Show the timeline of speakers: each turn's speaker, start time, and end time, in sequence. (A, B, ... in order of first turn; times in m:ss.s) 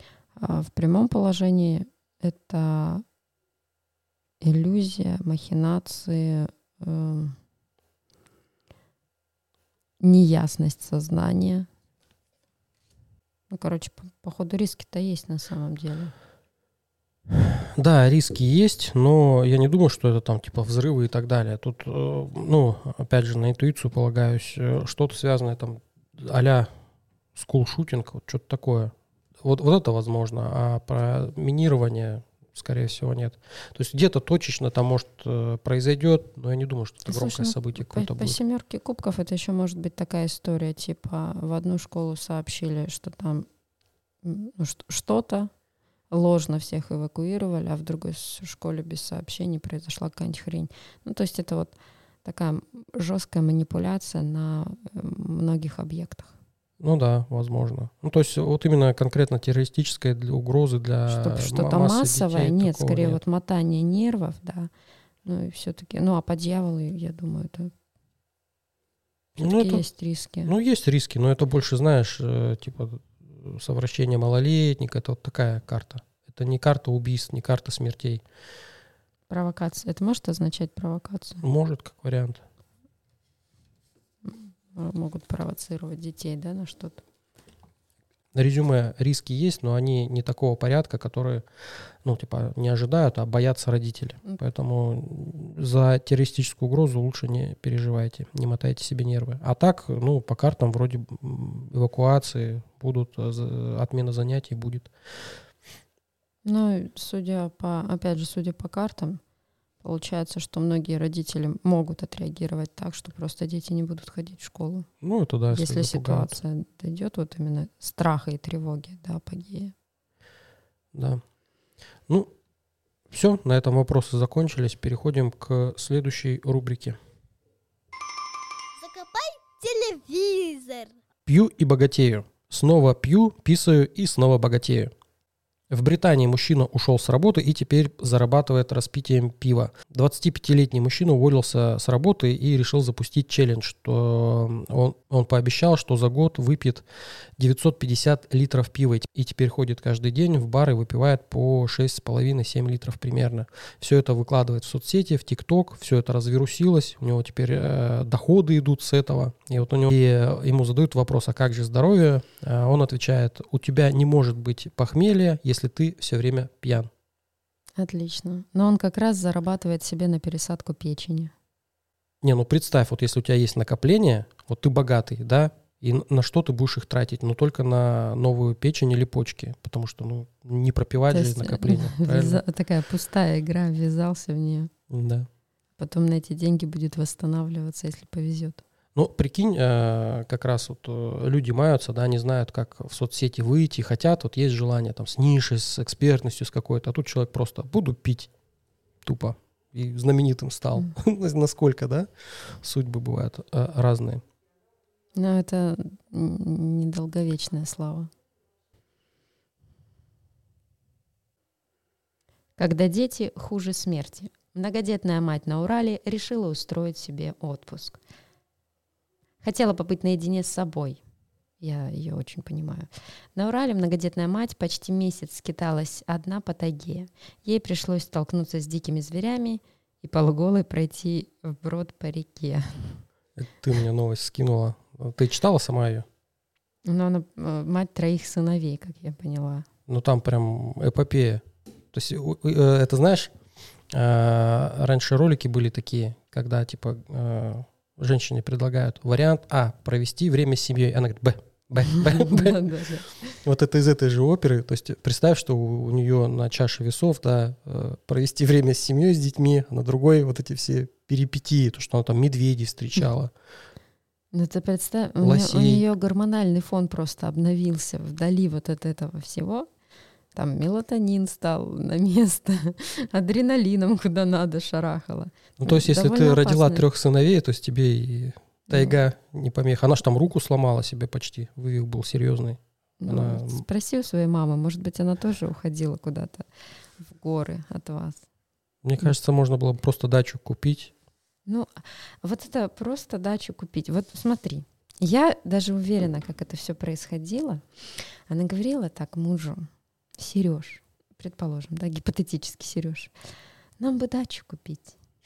0:00.4-0:03.0 A
0:04.4-0:07.4 A
0:10.0-0:11.7 A
0:13.5-0:16.1 A
0:17.3-0:26.7 B
0:27.3-0:28.9 B
0:29.4-0:38.4 B
0:37.1-0:43.5 A
0:44.2-0:45.5 A
0:46.1-0:56.3 A
0:56.8-1:03.2 B
1:01.1-1:04.7 A
1:05.2-1:07.7 A
1:09.4-1:10.5 A
1:09.4-1:09.8 B
1:10.4-1:18.2 B
1:19.3-1:21.4 A
1:21.4-1:22.4 B
1:24.2-1:27.0 A
1:28.3-1:31.4 B
1:32.0-1:44.9 B
1:46.4-1:49.2 A
1:49.8-1:54.9 A
1:55.0-1:56.4 B
1:55.5-1:59.7 A
2:00.9-2:01.2 B
2:03.1-2:07.0 B
2:08.8-2:10.9 C
2:11.2-2:14.9 B
2:15.7-2:26.8 B
2:27.4-2:46.9 B
2:47.8-2:51.3 A
2:52.2-3:02.4 B
3:01.1-3:04.7 A
3:04.9-3:05.3 B
3:05.8-3:08.6 A
3:08.9-3:18.3 B
3:19.0-3:22.1 B
3:22.6-3:24.2 B
3:25.1-3:28.1 A
3:32.6-3:38.0 A
3:39.4-3:41.0 A
3:41.6-3:53.0 A
3:53.4-3:56.0 B
3:56.8-3:59.7 A
3:59.9-4:03.3 B
4:03.9-4:12.6 B
4:11.9-4:13.4 A
4:13.4-4:23.3 B
4:24.3-4:29.7 A
4:25.2-4:25.8 B
4:30.3-4:36.8 A
4:35.6-4:43.6 B
4:38.7-4:39.0 A
4:43.0-4:46.5 A
4:47.0-4:48.2 A
4:48.8-4:50.9 B
4:51.4-5:03.1 A
5:03.8-5:04.9 A